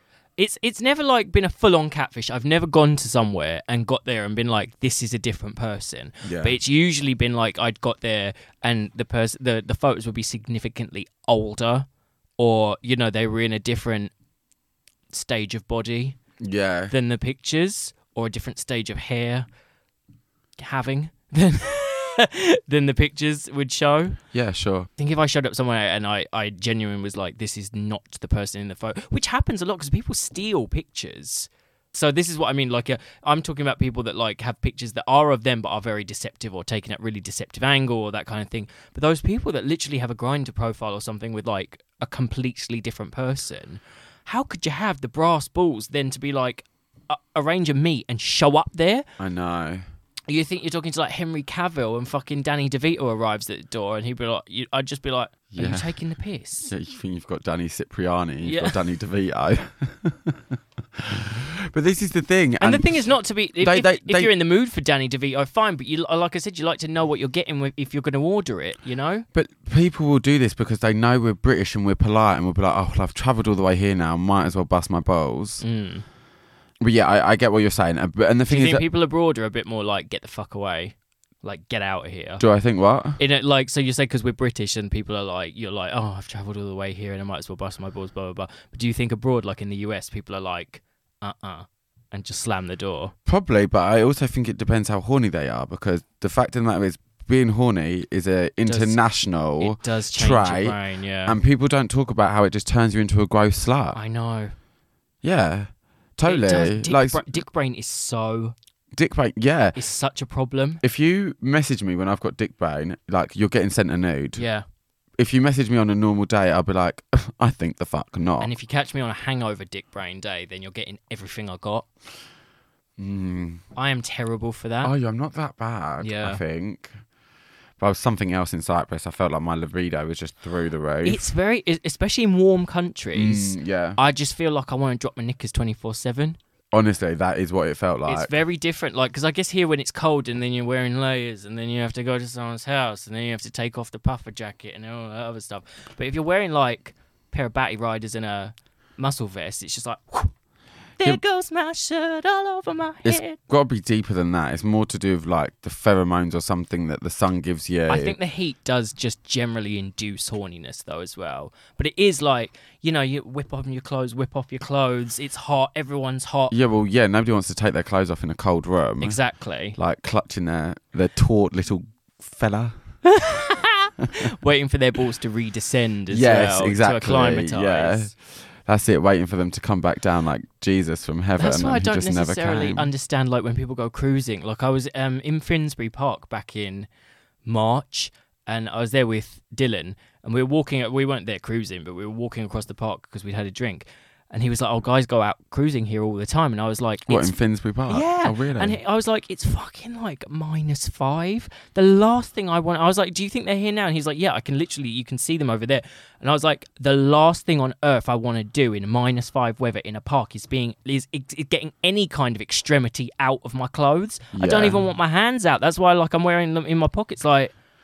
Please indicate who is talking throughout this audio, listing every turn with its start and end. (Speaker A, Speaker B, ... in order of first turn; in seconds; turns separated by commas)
Speaker A: 0.4-11.9, Speaker B: 6.2-6.6, Speaker A: 12.4-14.1, Speaker A: 15.1-16.2, Speaker B: 16.4-16.9, Speaker A: 16.9-19.5, Speaker A: 20.6-24.2, Speaker B: 24.3-24.9, Speaker A: 25.0-49.0, Speaker B: 49.2-49.8, Speaker A: 50.3-56.7, Speaker B: 55.5-55.9, Speaker B: 56.7-63.1, Speaker A: 58.4-58.8, Speaker A: 62.6-69.2, Speaker B: 63.6-64.3, Speaker B: 69.3-75.6, Speaker A: 75.6-76.0, Speaker B: 76.8-78.8, Speaker A: 78.5-82.4, Speaker B: 82.4-83.2, Speaker A: 83.2-93.1, Speaker B: 93.2-104.0, Speaker A: 98.7-99.0, Speaker A: 99.6-101.4, Speaker A: 103.9-104.5, Speaker B: 105.2-107.4, Speaker A: 106.2-108.5, Speaker B: 108.9-109.8, Speaker A: 109.7-110.8, Speaker B: 110.8-114.4, Speaker A: 114.3-114.6, Speaker B: 115.2-118.5, Speaker A: 118.4-121.9, Speaker B: 123.0-123.6, Speaker A: 123.7-124.9, Speaker B: 124.8-127.0, Speaker A: 126.0-126.4, Speaker B: 127.8-131.2, Speaker A: 131.0-136.4, Speaker B: 133.1-134.0, Speaker B: 136.7-138.3, Speaker A: 138.1-150.3, Speaker A: 151.0-153.4, Speaker B: 153.0-158.2, Speaker A: 157.9-166.5, Speaker B: 166.5-169.2, Speaker A: 169.0-169.8, Speaker B: 169.8-172.8, Speaker A: 173.1-178.1, Speaker B: 176.1-182.9, Speaker A: 181.4-186.9, Speaker A: 187.4-197.3, Speaker B: 197.1-198.8, Speaker A: 197.9-217.5, Speaker B: 214.3-214.8